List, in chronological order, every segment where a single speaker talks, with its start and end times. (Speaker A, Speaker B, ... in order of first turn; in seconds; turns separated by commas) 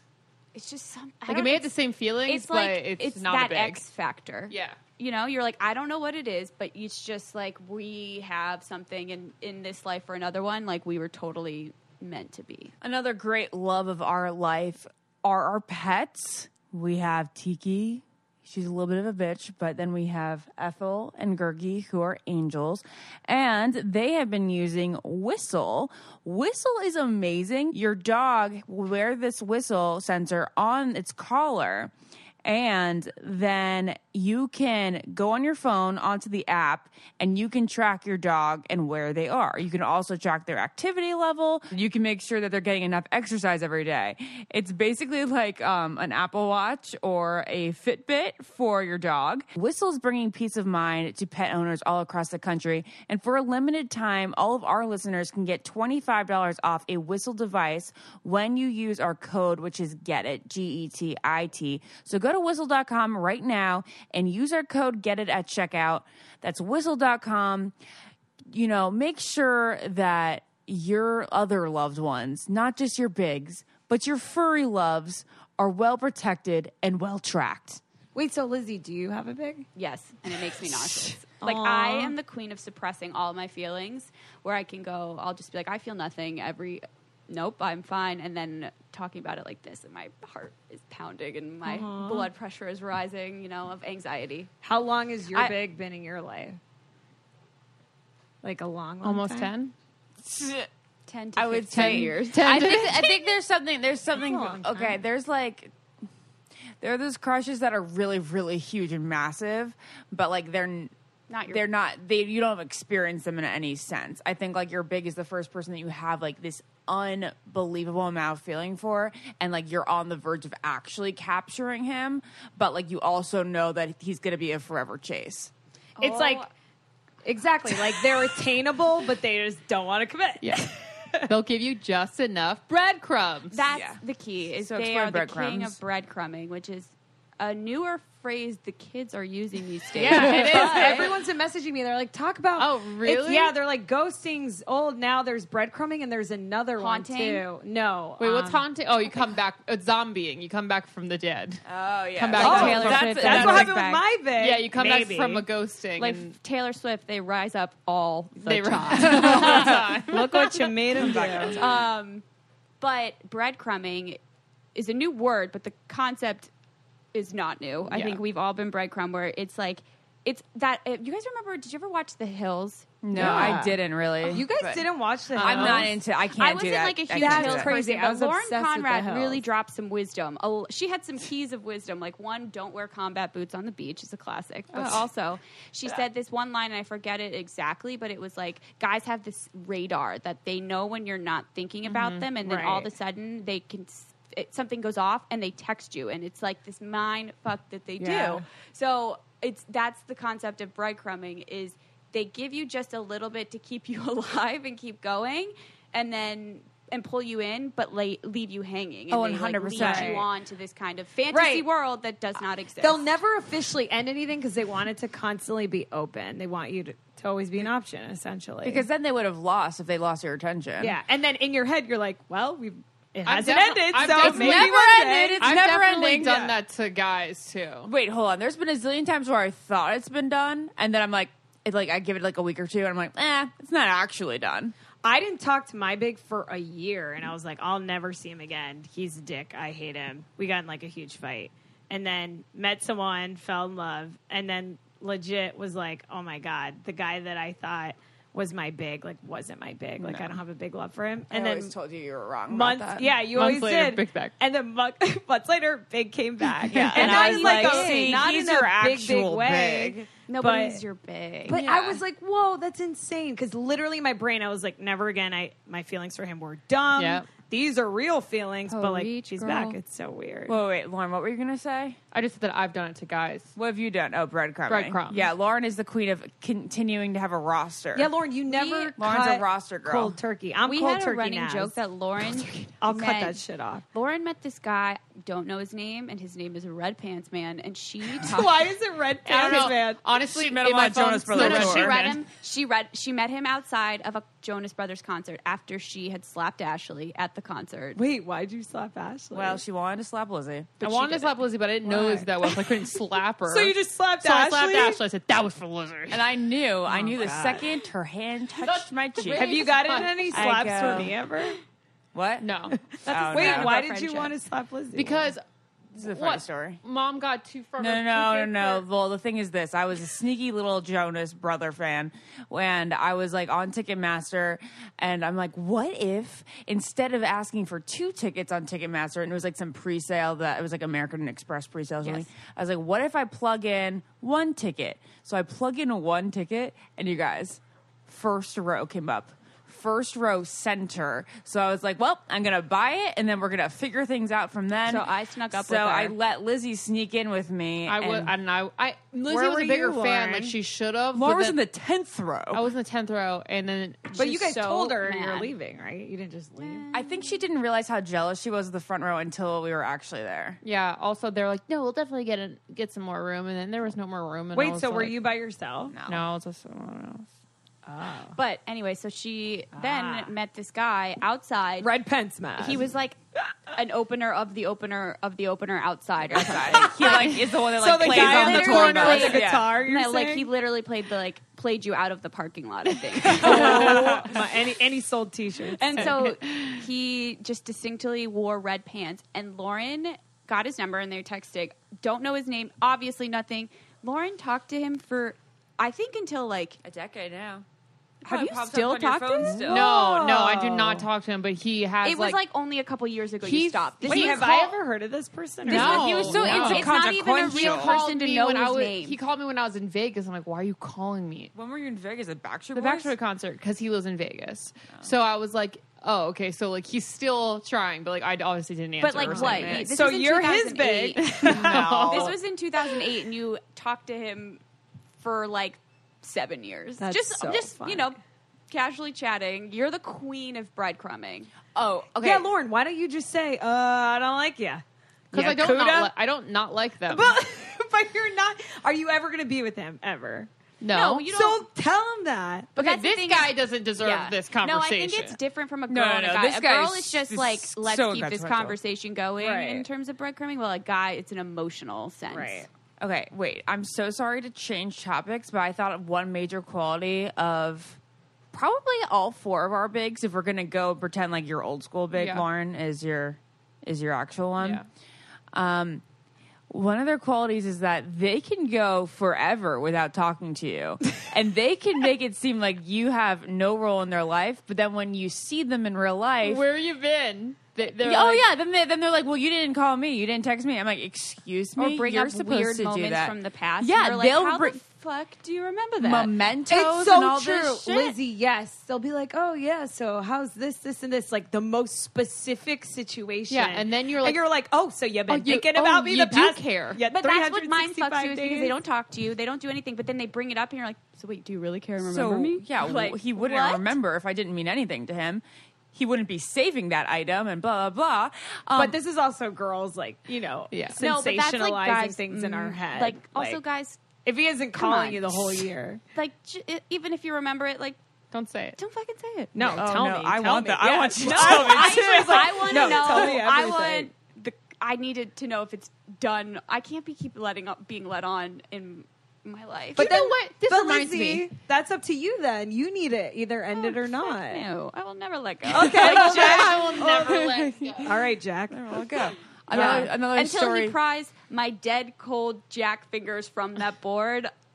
Speaker A: 0.5-1.7, Speaker B: 1.3-3.8, Speaker A: 2.2-12.7, Speaker B: 4.5-4.8, Speaker C: 12.8-31.9, Speaker C: 32.4-67.8, Speaker C: 68.5-77.8, Speaker D: 78.2-79.7, Speaker A: 79.8-94.5, Speaker D: 80.3-82.2, Speaker D: 91.7-92.3, Speaker D: 94.6-96.6, Speaker D: 98.4-99.5, Speaker B: 99.0-99.7, Speaker C: 100.2-100.7, Speaker A: 101.1-103.1, Speaker C: 101.4-105.7, Speaker B: 101.7-103.1, Speaker D: 104.2-105.0, Speaker C: 106.8-110.9, Speaker A: 111.3-111.7, Speaker C: 111.5-125.5, Speaker A: 126.0-126.5, Speaker D: 126.0-126.4, Speaker D: 127.2-131.3, Speaker B: 130.4-130.7, Speaker B: 131.2-133.6, Speaker A: 133.5-141.1, Speaker C: 133.7-134.0, Speaker C: 134.6-135.8, Speaker D: 139.9-148.5, Speaker B: 140.1-141.1, Speaker B: 142.6-143.6, Speaker A: 146.8-147.4, Speaker B: 148.2-151.6, Speaker C: 151.7-154.0, Speaker B: 152.2-153.6, Speaker A: 152.4-153.8, Speaker D: 152.4-155.5, Speaker B: 154.4-156.3, Speaker A: 156.0-159.8, Speaker B: 158.4-161.5, Speaker D: 159.0-161.6, Speaker C: 160.9-161.8, Speaker A: 161.6-162.2, Speaker A: 162.8-164.2, Speaker A: 164.8-166.5, Speaker A: 167.1-173.6, Speaker C: 173.0-174.9, Speaker D: 173.1-173.8, Speaker D: 174.3-175.9, Speaker B: 175.3-175.9, Speaker C: 175.4-177.8, Speaker A: 176.3-213.1, Speaker D: 177.1-179.4, Speaker B: 191.9-192.2, Speaker D: 192.4-192.9, Speaker D: 198.0-198.4, Speaker C: 209.1-210.2, Speaker D: 209.8-210.2, Speaker D: 211.3-211.7, Speaker D: 212.8-218.8, Speaker C: 218.6-221.0, Speaker D: 220.8-225.6, Speaker B: 223.3-227.9, Speaker C: 224.2-226.6, Speaker C: 227.8-234.8, Speaker D: 235.0-251.7, Speaker C: 250.0-250.4, Speaker C: 251.3-253.1, Speaker D: 252.5-260.8, Speaker B: 253.2-254.3, Speaker B: 256.7-257.2, Speaker C: 256.9-260.1, Speaker A: 257.0-258.2, Speaker A: 260.3-261.6, Speaker D: 261.5-270.6, Speaker B: 261.6-262.0, Speaker B: 266.9-267.3, Speaker B: 268.8-269.7, Speaker A: 269.1-269.7, Speaker C: 270.5-272.0, Speaker B: 272.1-273.5, Speaker C: 273.6-278.1, Speaker B: 274.7-275.3, Speaker D: 277.9-283.8, Speaker A: 278.5-278.9, Speaker C: 279.0-280.2, Speaker A: 280.6-283.4, Speaker A: 283.9-288.7, Speaker D: 288.1-290.0, Speaker B: 289.3-292.2, Speaker C: 290.2-292.0, Speaker A: 291.4-298.0, Speaker D: 298.0-299.6, Speaker C: 299.3-301.2, Speaker B: 300.8-306.3, Speaker D: 301.9-305.0, Speaker C: 306.1-309.7, Speaker D: 306.9-307.7, Speaker B: 308.6-311.1, Speaker D: 309.3-311.6, Speaker C: 310.3-311.1, Speaker C: 312.1-314.3, Speaker B: 312.4-312.8, Speaker D: 313.0-315.3, Speaker B: 313.4-313.7, Speaker A: 313.4-314.2, Speaker B: 314.9-315.4, Speaker B: 315.9-318.9, Speaker C: 315.9-316.8, Speaker C: 317.8-348.3, Speaker A: 332.0-332.3, Speaker A: 344.9-346.1, Speaker B: 347.9-351.6, Speaker D: 349.3-350.6, Speaker C: 351.1-352.7, Speaker B: 352.5-354.7, Speaker D: 354.1-356.9, Speaker A: 354.2-355.5, Speaker A: 356.6-357.4, Speaker C: 356.9-360.6, Speaker B: 360.6-365.2, Speaker D: 364.5-365.9, Speaker C: 365.9-366.2, Speaker B: 366.1-367.3, Speaker D: 367.9-368.4, Speaker A: 368.4-371.9, Speaker D: 369.7-370.3, Speaker D: 371.8-372.9, Speaker A: 372.6-373.2, Speaker A: 373.7-377.3, Speaker C: 376.2-379.7, Speaker D: 376.8-380.5, Speaker A: 378.0-384.2, Speaker D: 383.2-386.2, Speaker C: 383.4-384.4, Speaker A: 385.8-396.8, Speaker B: 386.5-386.8, Speaker C: 396.8-397.6, Speaker A: 398.2-399.7, Speaker C: 398.2-400.0, Speaker B: 399.6-402.4, Speaker D: 399.7-401.1, Speaker A: 402.0-404.7, Speaker B: 403.4-404.7, Speaker D: 404.0-406.4, Speaker B: 405.6-411.5, Speaker C: 405.7-408.0, Speaker A: 405.7-409.2, Speaker C: 411.6-413.1, Speaker B: 412.7-419.9, Speaker A: 419.0-421.3, Speaker D: 419.3-422.1, Speaker C: 419.3-419.9, Speaker B: 421.3-422.3, Speaker C: 421.5-422.4, Speaker A: 422.1-424.6, Speaker A: 425.2-428.2, Speaker D: 427.0-428.1, Speaker A: 428.7-431.5, Speaker C: 431.7-432.5, Speaker D: 432.2-436.1, Speaker B: 435.3-437.4, Speaker D: 437.1-440.5, Speaker B: 440.8-441.2, Speaker A: 440.9-441.6, Speaker D: 441.2-442.7, Speaker B: 442.8-445.4, Speaker A: 442.8-452.7, Speaker C: 445.9-448.8, Speaker D: 449.4-449.9, Speaker D: 452.3-452.7, Speaker C: 453.0-458.0, Speaker C: 458.5-464.8, Speaker B: 462.1-462.5, Speaker B: 464.6-464.9, Speaker C: 465.5-466.0, Speaker C: 466.7-476.6, Speaker B: 476.4-478.5, Speaker C: 478.0-484.8, Speaker A: 481.8-486.4, Speaker C: 486.0-488.2, Speaker D: 486.7-498.8, Speaker B: 493.5-494.4, Speaker B: 495.3-497.0, Speaker A: 497.1-503.9, Speaker C: 502.0-509.0, Speaker D: 508.8-513.6, Speaker B: 510.7-511.0, Speaker A: 511.0-514.0, Speaker D: 514.2-516.0, Speaker A: 514.7-518.0, Speaker B: 518.3-518.8, Speaker A: 518.8-519.8, Speaker D: 519.5-524.1, Speaker C: 519.6-523.4, Speaker A: 521.2-530.1, Speaker D: 530.0-534.6, Speaker B: 530.0-531.5, Speaker A: 533.7-536.9, Speaker D: 535.7-537.5, Speaker B: 536.0-538.2, Speaker C: 536.4-538.2, Speaker D: 538.0-538.8, Speaker C: 538.7-541.0, Speaker A: 539.7-544.5, Speaker D: 539.7-540.1